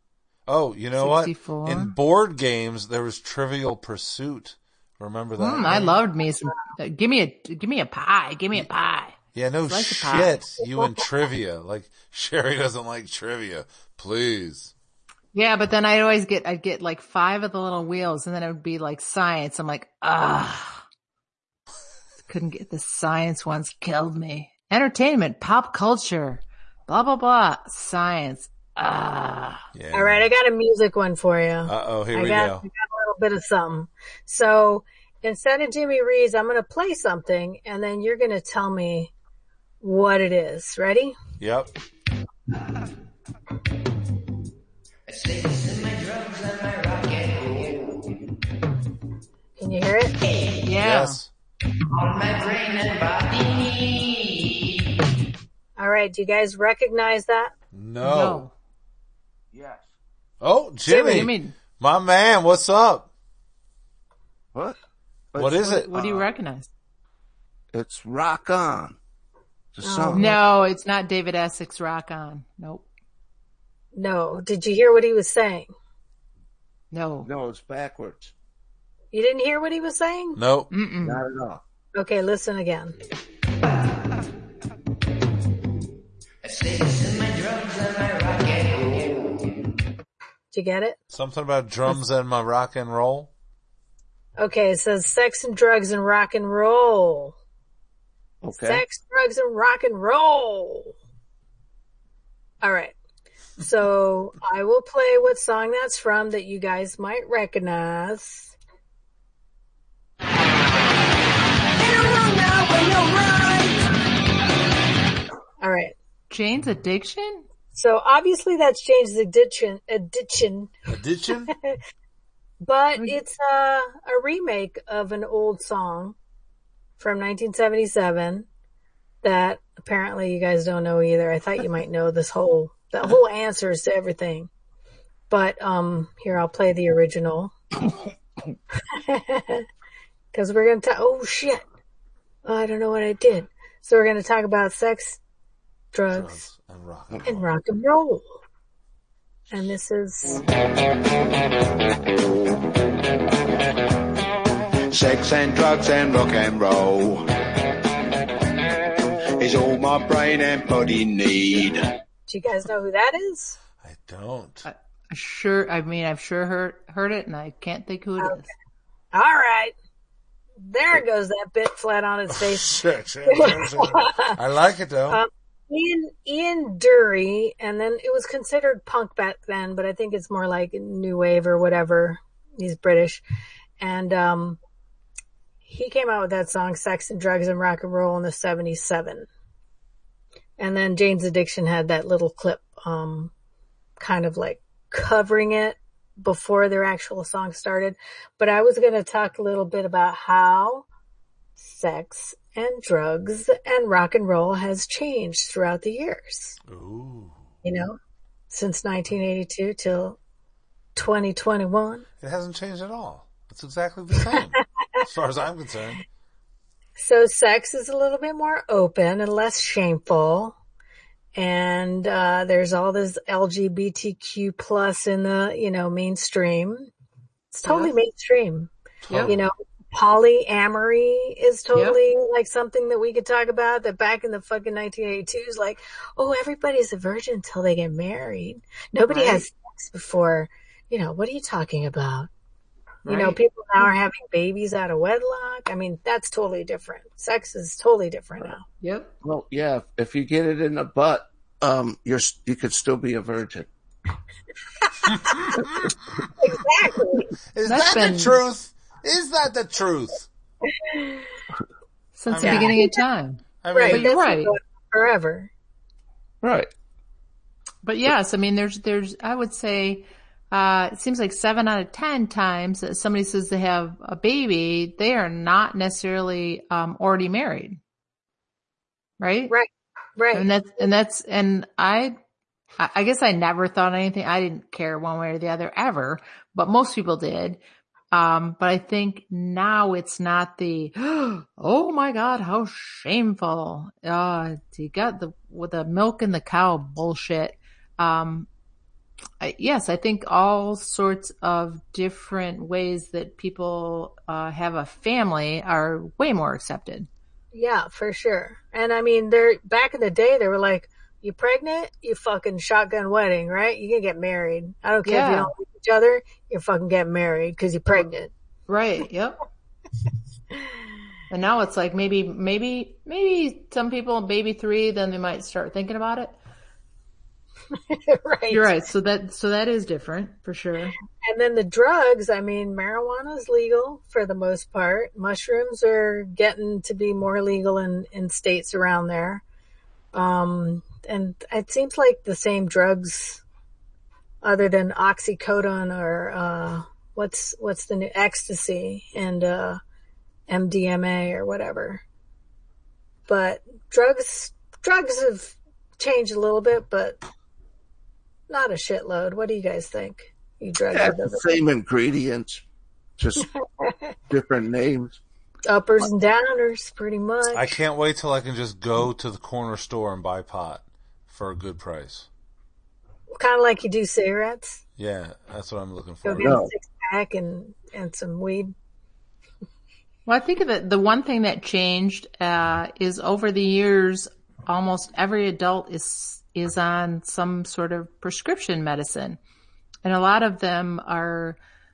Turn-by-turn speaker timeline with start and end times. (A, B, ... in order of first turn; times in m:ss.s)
0:00.5-0:05.9 A
0:01.0-0:01.9 B
0:05.4-0:09.2 B
0:05.6-0:05.9 C
0:09.3-0:14.7 A
0:09.7-0:10.3 B
0:10.6-0:11.0 C
0:15.3-0:20.8 B
0:22.3-0:29.6 B
0:29.7-0:30.3 A
0:29.9-0:39.1 C
0:31.6-0:32.6 A
0:39.8-0:41.2 C
0:41.4-0:41.7 A
0:45.1-0:48.2 D
0:49.6-0:50.2 C
0:50.2-0:50.8 D
0:50.6-0:51.2 B
0:50.8-0:51.3 A
0:51.9-0:54.8 D
0:55.8-0:57.5 C
0:57.7-0:58.4 A
0:58.0-0:58.5 B
0:59.5-0:59.9 E
1:00.4-1:03.1 A
1:00.8-1:01.6 B
1:05.3-1:06.2 E
1:05.4-1:05.9 A
1:05.6-1:06.7 B
1:07.7-1:09.0 E
1:09.7-1:10.3 E
1:09.8-1:10.4 C
1:10.1-1:12.9 B
1:13.9-1:15.7 C
1:16.9-1:17.3 B
1:17.2-1:18.3 E
1:19.1-1:20.4 C
1:20.4-1:20.7 A
1:20.7-1:21.2 B
1:21.0-1:21.6 E
1:21.9-1:23.0 C
1:26.4-1:29.6 D
1:30.5-1:31.0 C
1:31.1-1:33.3 A
1:34.4-1:37.3 C
1:38.4-1:38.8 E
1:38.5-1:40.9 C
1:42.6-1:43.0 C
1:43.6-1:48.5 C
1:51.8-1:53.8 C
1:55.6-1:55.9 C
1:56.3-1:57.4 B
1:57.7-2:00.7 C
2:00.9-2:01.5 A
2:01.5-2:01.8 C
2:02.6-2:06.2 C
2:07.0-2:08.4 C
2:09.2-2:14.5 C
2:15.3-2:17.5 C
2:18.9-2:19.6 C
2:20.3-2:21.6 C
2:22.4-2:25.2 C
2:25.9-2:26.4 C
2:26.1-2:27.5 A
2:27.2-2:28.2 C
2:29.5-2:30.4 C
2:34.9-2:37.2 D
2:39.4-2:41.9 D
2:42.3-2:43.6 C
2:43.8-2:44.6 A
2:44.6-2:48.5 B
2:48.2-2:48.4 C
2:49.1-2:49.7 C
2:50.6-2:54.4 C
2:52.3-2:55.2 A
2:55.1-3:03.2 C
3:03.8-3:04.6 C
3:05.6-3:09.3 C
3:10.6-3:13.3 C
3:14.0-3:20.8 C
3:21.6-3:26.6 C
3:26.7-3:27.4 A
3:27.6-3:28.0 C
3:28.5-3:30.2 C
3:31.0-3:32.0 C
3:32.2-3:36.0 A
3:37.0-3:40.5 C
3:41.3-3:46.9 C
3:47.5-3:48.7 C
3:47.6-3:47.9 B
3:49.0-3:49.3 A
3:49.1-3:49.3 B
3:49.2-4:02.3 C
3:51.7-3:52.0 B
3:59.1-3:59.4 B
4:03.0-4:03.9 B
4:03.0-4:08.6 C
4:08.8-4:09.1 B
4:09.2-4:13.7 E
4:15.1-4:15.7 A
4:16.4-4:17.3 C
4:17.5-4:20.3 A
4:17.6-4:18.4 B
4:20.7-4:21.3 C
4:22.2-4:24.5 B
4:22.3-4:22.8 A
4:22.4-4:23.0 C
4:23.6-4:24.1 A
4:23.7-4:25.5 C
4:26.4-4:26.7 E
4:27.8-4:37.8 B
4:39.2-4:39.5 B
4:39.5-4:40.5 C
4:40.3-4:42.2 B
4:42.8-4:47.6 B
4:48.1-4:58.5 B
4:59.4-5:07.1 B
5:07.5-5:18.3 C
5:15.0-5:15.5 B
5:18.7-5:19.4 B
5:21.3-5:26.3 B
5:27.9-5:28.7 C
5:28.5-5:31.0 B
5:31.2-5:39.4 C
5:40.1-5:43.4 C
5:44.4-5:49.8 C
5:50.5-5:52.0 C
5:53.3-5:57.2 C
5:58.5-6:01.5 C
6:00.9-6:02.6 E
6:03.2-6:03.5 E
6:03.4-6:03.9 C
6:04.3-6:05.2 E
6:05.7-6:07.8 C
6:07.5-6:12.3 A
6:13.4-6:14.8 C
6:15.0-6:16.6 A
6:16.2-6:18.7 C
6:16.4-6:16.7 E
6:20.2-6:29.4 B
6:30.0-6:31.6 B